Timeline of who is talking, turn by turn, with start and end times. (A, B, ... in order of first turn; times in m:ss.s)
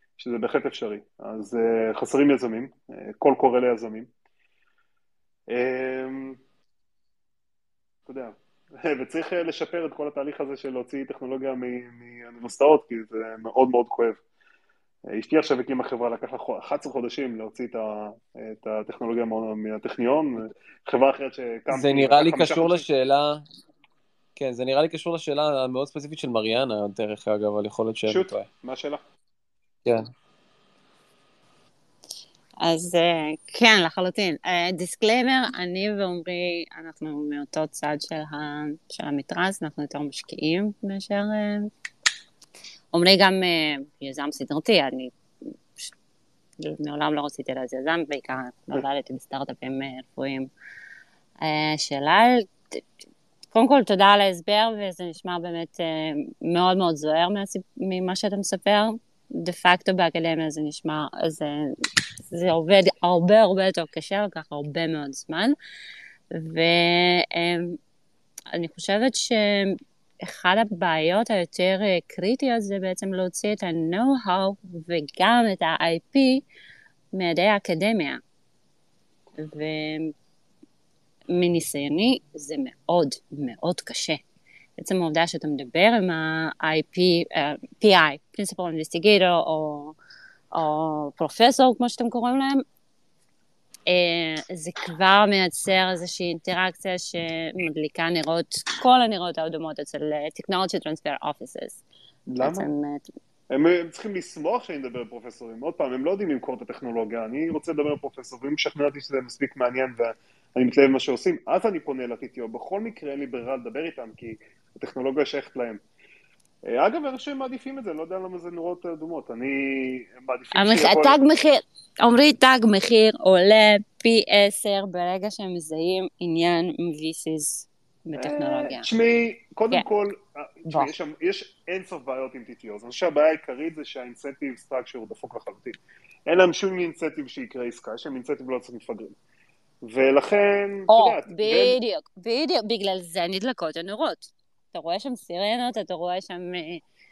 0:00.2-0:04.1 A
0:05.5-0:06.4 A
0:08.1-0:14.2 A
0:15.1-0:22.8 A
0:21.7-0:23.4 B
0:24.4-0:28.5 B
0:28.1-0:29.0 A
0:32.6-0:41.7 C
0:42.9-0:45.1 C
0:46.6-0:50.5 C
0:51.4-0:52.8 C
0:53.5-1:01.8 C
1:02.3-1:05.6 C
1:06.3-1:07.8 C
1:08.5-1:16.4 C
1:17.1-1:18.2 C
1:19.4-1:20.1 C
1:21.3-1:24.2 C
1:24.8-1:30.0 C
1:30.5-1:32.6 C
1:33.9-1:41.8 C
1:42.3-1:42.7 A
1:42.4-1:43.1 C
1:43.5-1:55.8 A
1:56.6-2:01.2 A
2:00.6-2:08.9 C
2:08.2-2:19.1 A
2:19.8-2:21.8 A
2:20.9-2:26.8 C